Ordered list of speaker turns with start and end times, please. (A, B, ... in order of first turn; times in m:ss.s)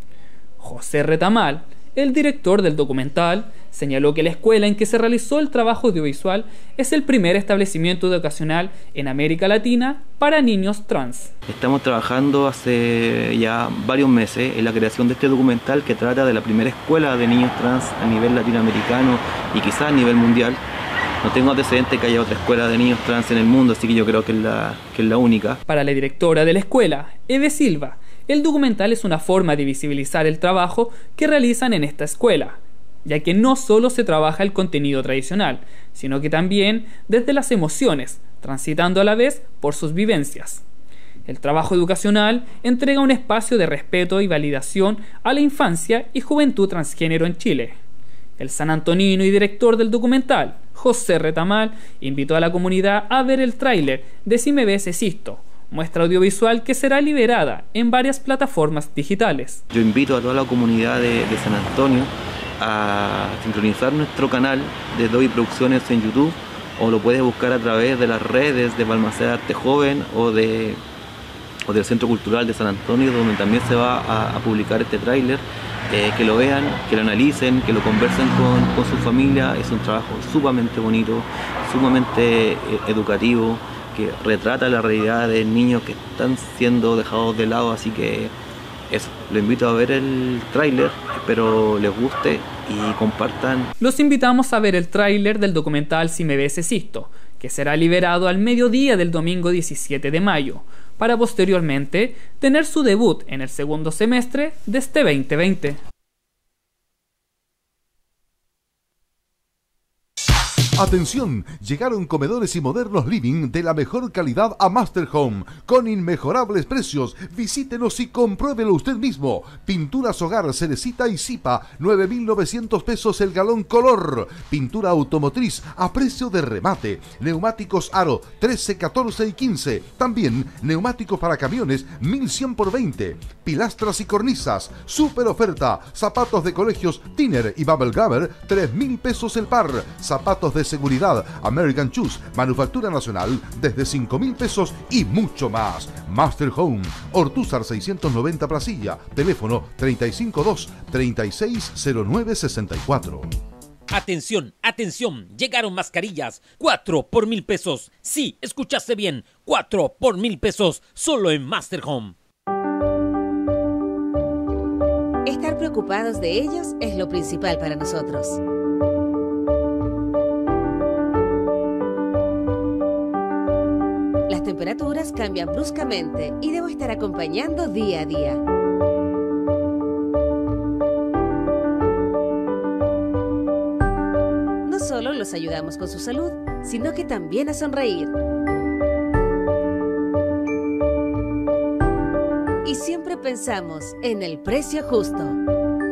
0:00.6-0:11.3 A
0:11.5-0:20.6 B
0:21.2-0:25.6 B
0:25.7-0:40.6 A
0:41.3-0:47.8 A
0:48.4-0:59.6 A
0:59.7-1:10.8 B
1:11.7-1:28.3 B
1:28.9-1:33.7 B
1:33.8-1:45.8 A
1:50.8-2:33.3 C
2:33.9-2:42.2 D
2:45.2-2:48.4 E
2:54.3-2:58.4 E
3:04.6-3:08.1 E
3:12.6-3:15.4 E